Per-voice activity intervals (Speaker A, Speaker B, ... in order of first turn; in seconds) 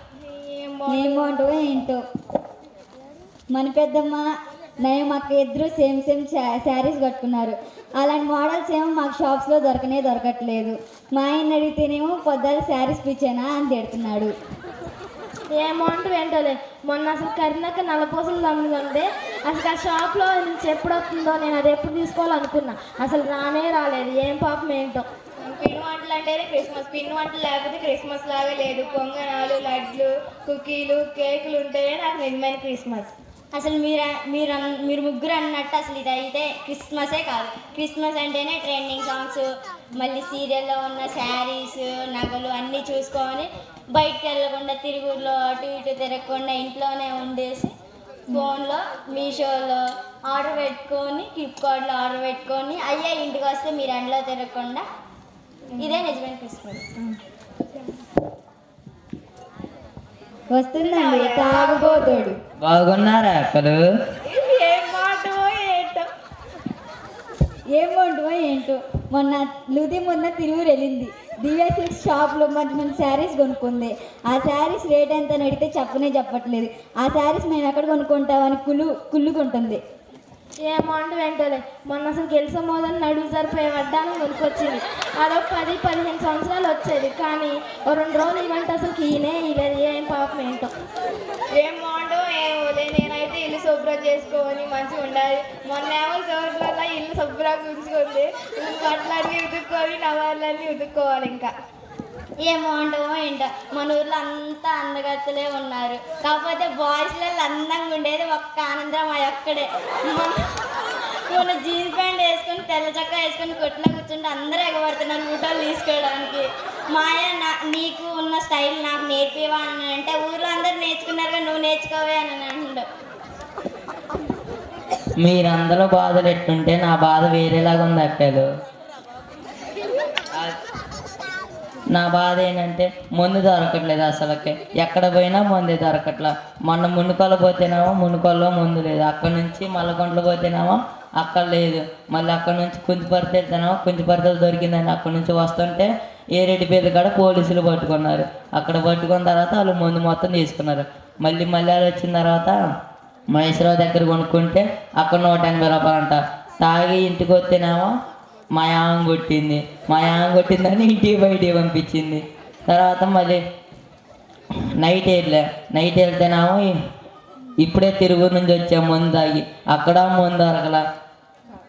Speaker A: 0.3-1.3, 25.4-33.1, 60.9-62.3, 64.3-66.1, 91.5-101.5
Speaker B: 0.9-2.0, 3.5-4.2, 4.8-14.3, 60.5-62.4, 67.7-79.8
Speaker C: 15.5-25.1, 80.6-90.7
Speaker D: 33.5-47.7, 48.3-54.8, 55.8-56.9, 102.4-110.5, 111.3-122.8
Speaker E: 62.6-63.8, 125.2-128.5, 131.9-152.6, 153.3-157.9, 158.6-163.4, 164.8-166.7, 167.6-170.8